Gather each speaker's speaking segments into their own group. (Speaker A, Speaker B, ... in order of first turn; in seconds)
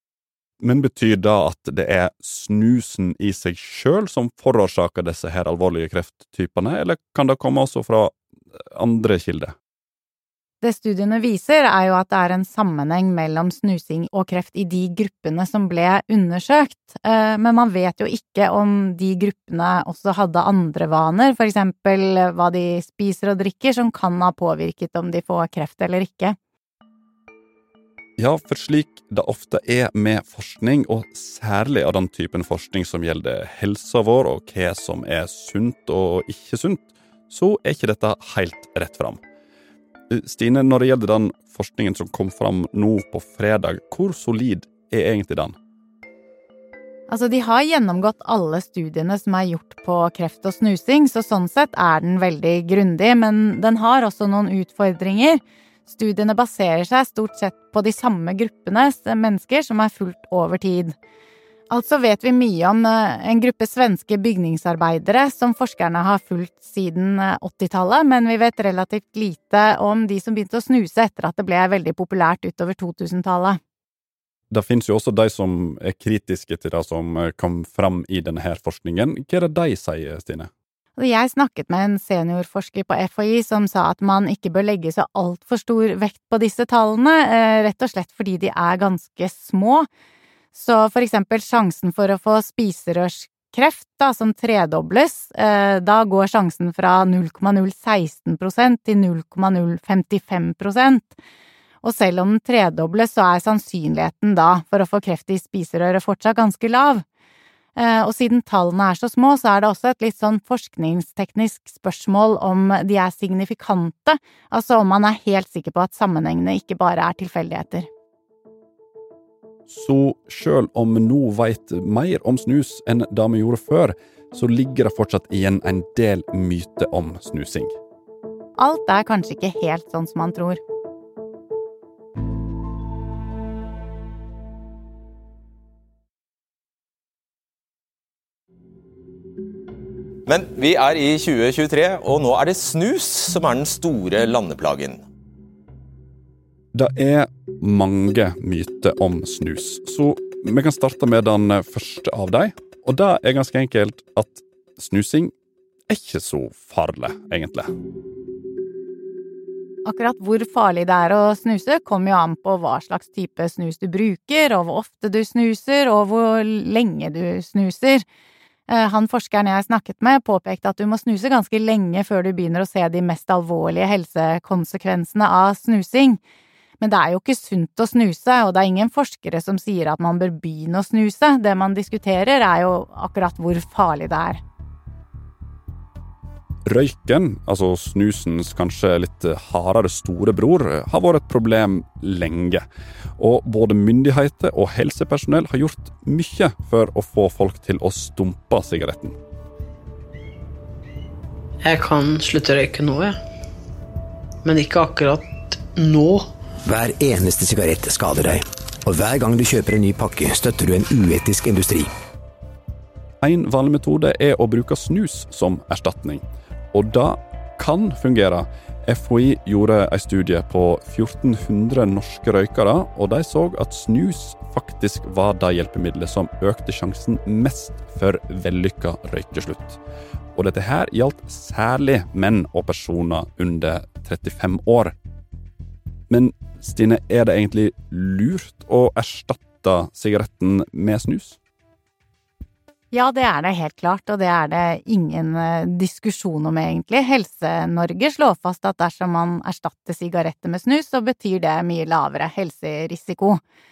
Speaker A: 0.6-8.2, 8.7-9.5, 28.2-39.2, 40.1-45.5, 74.5-80.5, 119.7-127.7, 146.7-155.3, 155.9-157.7, 186.7-192.6, 193.2-199.2, 213.2-229.8, 230.3-234.9, 236.1-241.4
Speaker B: 10.6-26.4, 47.1-60.9, 61.7-73.6, 81.0-89.9, 90.5-101.2, 101.8-107.0, 107.8-117.9, 128.6-130.6, 159.8-168.0, 168.7-176.2, 176.8-184.4, 242.9-253.4
Speaker C: 140.2-145.0
Speaker D: 201.6-203.2, 204.4-206.3
Speaker E: 206.7-208.2, 208.9-210.6, 211.3-211.8